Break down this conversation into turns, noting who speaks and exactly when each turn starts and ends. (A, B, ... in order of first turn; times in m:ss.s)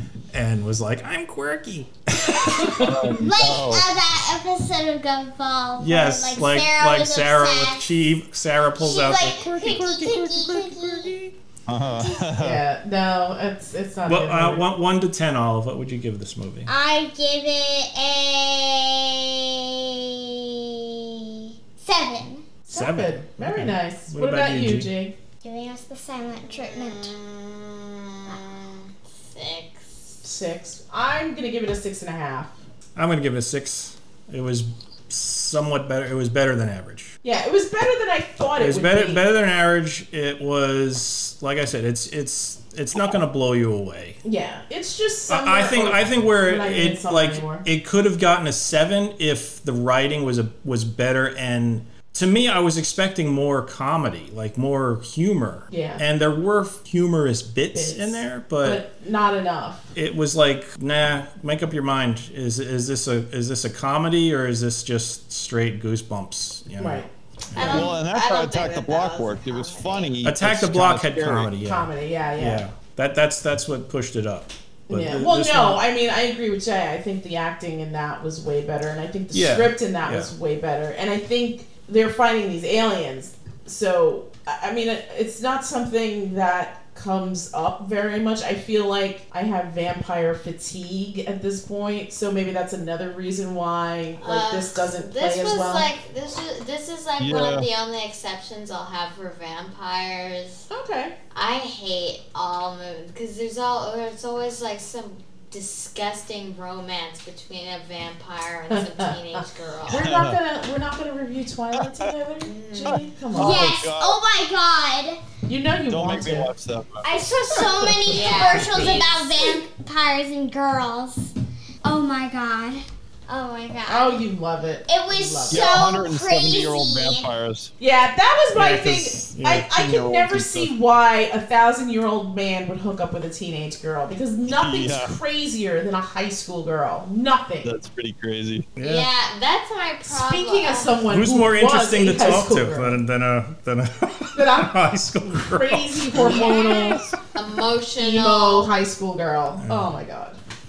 0:00.3-0:03.1 A
0:02.5-0:02.8 B
0:02.7-0:04.0 C
0:03.2-0:07.9 D
0:05.8-0:11.3 A
0:08.8-0:11.2 D
0:11.7-0:12.6 C
0:12.0-0:12.2 D
0:12.4-0:14.7 B
0:14.0-0:16.7 A
0:16.7-0:22.5 D
0:22.7-0:25.1 B
0:22.7-0:24.9 A
0:25.4-0:27.2 D
0:26.5-0:30.2 E
0:30.2-0:32.5 B
0:33.0-0:37.2 A
0:37.2-0:39.2 B
0:38.6-0:44.2 A
0:44.2-0:47.7 B
0:45.3-0:58.8 A
0:55.7-0:56.0 B
0:57.7-0:59.9 B
1:00.0-1:07.9 A
1:06.8-1:07.9 B
1:07.6-1:10.2 E
1:07.6-1:11.5 C
1:10.2-1:15.8 A
1:11.6-1:12.6 B
1:14.9-1:35.9 B
1:19.3-1:20.3 A
1:34.2-1:40.6 E
1:37.2-1:37.7 C
1:40.7-1:41.2 B
1:41.3-1:50.2 E
1:48.7-1:53.8 B
1:49.9-1:50.4 C
1:51.8-1:52.1 C
1:52.4-1:53.1 E
1:52.8-1:54.2 C
1:53.3-1:55.2 D
1:55.5-1:56.5 B
1:55.9-1:57.1 C
1:57.0-2:01.3 D
1:57.2-1:58.7 B
1:58.1-1:59.6 E
2:01.8-2:04.2 D
2:03.9-2:05.8 B
2:04.9-2:07.3 D
2:05.5-2:07.7 C
2:07.8-2:17.7 B
2:08.5-2:10.7 A
2:14.5-2:15.2 C
2:17.6-2:18.7 C
2:18.8-2:19.1 A
2:18.8-2:21.0 E
2:20.0-2:23.0 B
2:21.1-2:27.1 A
2:24.3-2:24.8 B
2:25.5-2:27.1 B
2:26.2-2:27.0 C
2:26.5-2:28.7 E
2:28.0-2:30.4 B
2:29.6-2:29.9 A